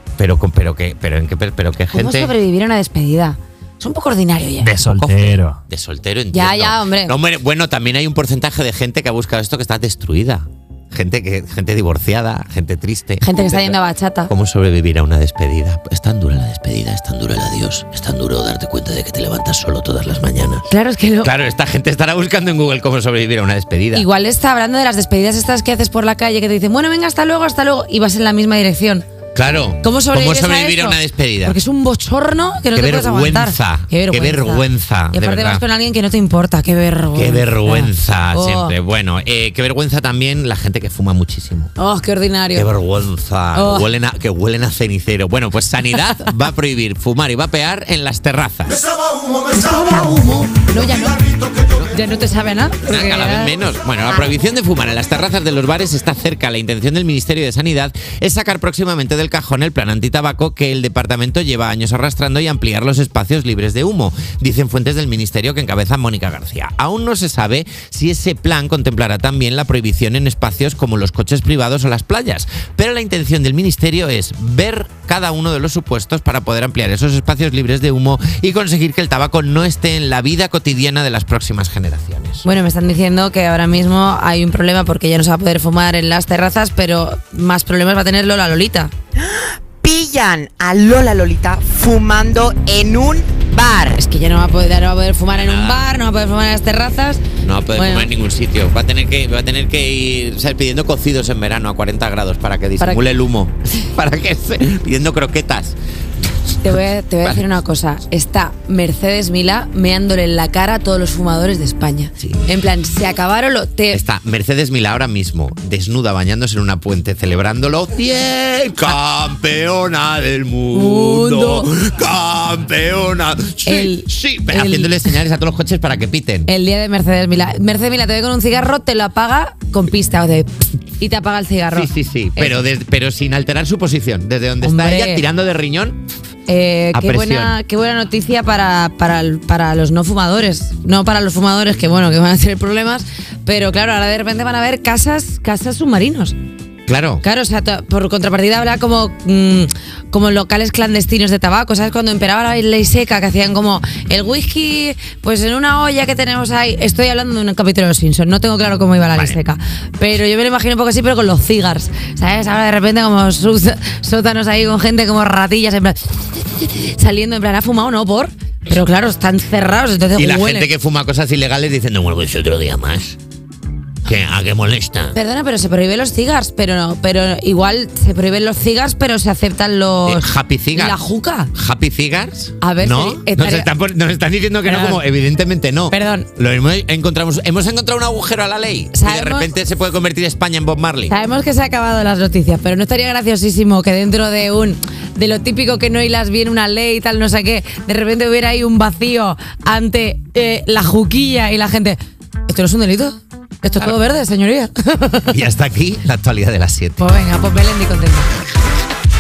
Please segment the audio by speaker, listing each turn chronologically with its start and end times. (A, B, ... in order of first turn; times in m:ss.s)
0:00.2-0:02.3 A
0:01.9-0:04.9 B
0:04.6-0:13.7 A
0:06.3-0:07.2 B
0:13.2-0:14.3 B
0:14.3-0:20.7 A
0:20.7-0:21.3 B
0:21.2-0:24.0 A
0:23.9-0:29.1 B
0:29.4-0:31.6 A
0:29.8-0:38.8 B
0:32.7-0:35.6 A
0:37.2-0:41.7 A
0:41.8-0:42.7 B
0:42.5-0:48.8 A
0:43.5-0:43.9 B
0:45.9-0:46.3 B
0:49.5-0:53.6 B
0:52.9-1:22.4 A
1:22.4-1:28.9 B
1:29.2-1:34.0 C
1:33.9-1:38.1 B
1:35.3-1:35.9 A
1:37.4-1:45.8 A
1:42.8-1:43.1 B
1:46.6-1:54.0 B
1:53.9-2:06.5 A
2:00.7-2:01.7 B
2:03.6-2:05.2 B
2:06.5-2:12.6 B
2:11.7-2:16.0 A
2:14.6-2:15.2 B
2:16.5-2:26.4 B
2:16.9-2:17.6 A
2:26.9-2:27.2 A
2:27.2-2:50.7 B
2:50.2-2:53.2 A
2:54.0-2:55.2 A
2:55.1-3:01.5 B
3:00.1-3:01.0 A
3:01.6-3:11.2 A
3:02.6-3:03.7 B
3:04.6-3:05.0 B
3:05.9-3:06.4 B
3:08.9-3:09.6 B
3:11.1-3:25.4 B
3:25.3-3:27.0 A
3:27.0-3:28.3 B